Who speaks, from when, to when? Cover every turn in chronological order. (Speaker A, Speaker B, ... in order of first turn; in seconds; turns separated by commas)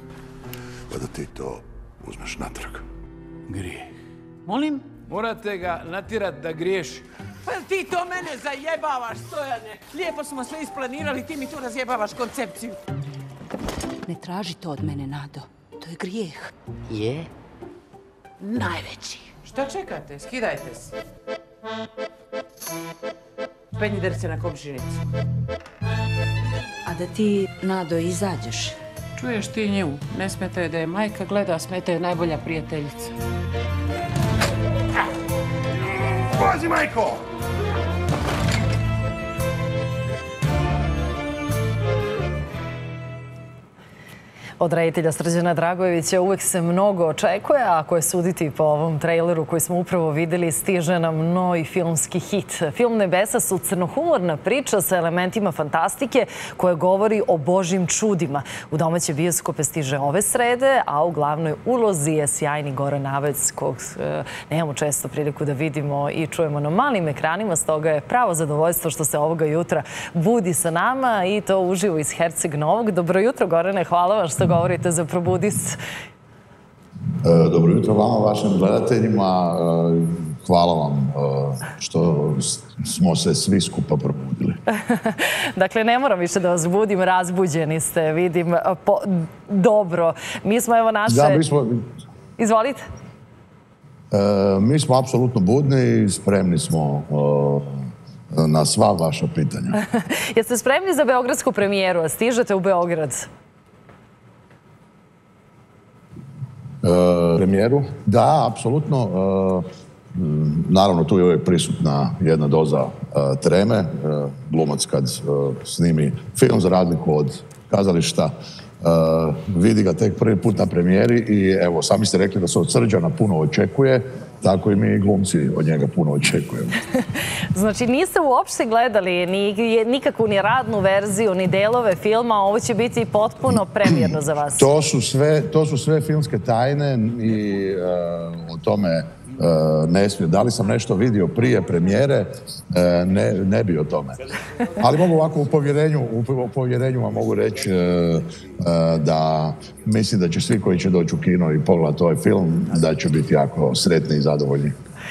Speaker A: 0.9-2.8, Speaker B: 3.5-3.9, Speaker C: 4.5-4.9, Speaker B: 5.1-7.0, Speaker C: 7.4-12.8, Speaker D: 14.1-16.5, Speaker C: 18.4-20.9, Speaker C: 23.7-25.0, Speaker D: 26.9-28.7, Speaker C: 29.2-33.1, Speaker C: 36.4-37.1, Speaker E: 44.6-75.8, Speaker A: 77.2-84.6, Speaker E: 84.8-91.4, Speaker A: 91.1-91.8, Speaker E: 92.4-92.8, Speaker A: 94.1-99.8, Speaker E: 99.9-103.3, Speaker A: 106.8-126.8, Speaker E: 127.5-134.7, Speaker A: 134.6-144.2, Speaker A: 144.8-154.7